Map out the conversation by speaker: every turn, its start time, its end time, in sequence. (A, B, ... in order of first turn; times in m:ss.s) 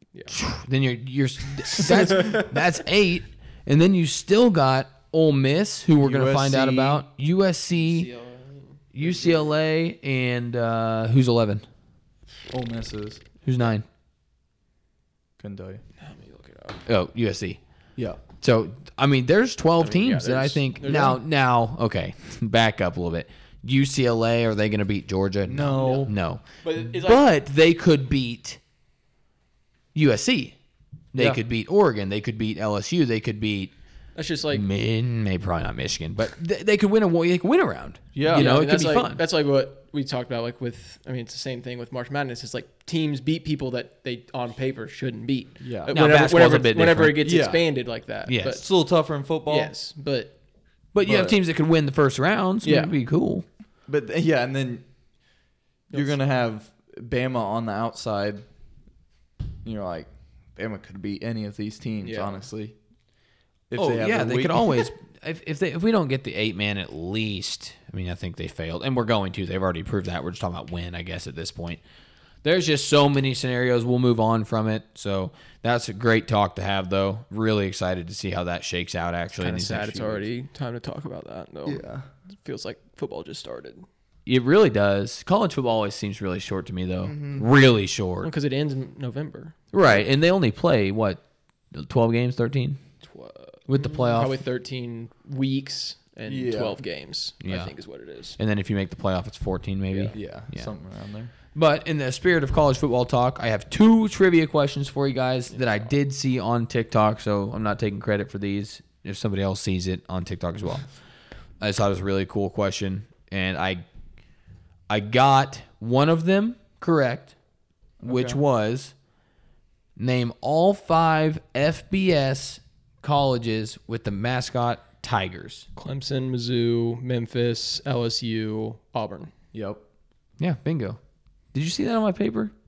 0:00.3-0:08.1 A
0:01.8-0:02.4 B
0:06.0-0:07.0 C
0:07.7-0:09.5 B
0:08.9-0:11.6 A
0:12.5-0:13.2 C
0:13.4-0:13.8 A
0:15.4-0:15.8 C
0:16.0-0:16.8 B
0:16.8-0:17.6 A
0:18.3-0:28.6 A
0:19.8-0:21.2 B
0:25.4-0:26.1 C
0:25.8-0:26.0 B
0:26.6-0:27.2 B
0:29.9-0:30.6 A
0:31.1-0:33.7 A
0:34.1-0:34.6 B
0:34.5-0:39.2 A
0:38.1-0:38.5 C
0:38.2-0:48.6 B
0:45.6-0:45.9 C
0:45.9-0:47.2 A
0:47.2-0:47.6 C
0:48.2-0:48.6 A
0:48.5-0:49.7 C
0:49.5-0:50.3 B
0:50.9-0:53.4 A
0:51.0-0:51.4 C
0:52.6-0:52.9 B
0:53.9-0:54.8 C
0:55.9-0:58.4 C
0:59.6-1:02.8 C
1:02.0-1:02.4 B
1:03.7-1:04.8 C
1:03.8-1:11.8 A
1:12.4-1:20.3 A
1:19.4-1:23.8 B
1:21.6-1:22.1 C
1:24.3-1:28.3 A
1:27.0-1:27.4 C
1:28.2-1:30.0 B
1:29.7-1:32.8 A
1:33.0-1:38.4 B
1:33.7-1:34.4 A
1:36.3-1:36.8 C
1:37.4-1:37.7 A
1:38.4-1:40.7 A
1:39.9-1:40.2 B
1:40.1-1:41.3 C
1:41.5-1:50.9 A
1:45.5-1:45.9 B
1:51.6-1:53.8 A
1:54.9-1:57.3 A
1:58.0-1:58.4 C
1:58.0-1:58.9 A
2:00.0-2:05.7 A
2:05.8-2:09.3 B
2:09.5-2:09.8 C
2:10.4-2:11.0 A
2:11.5-2:12.5 A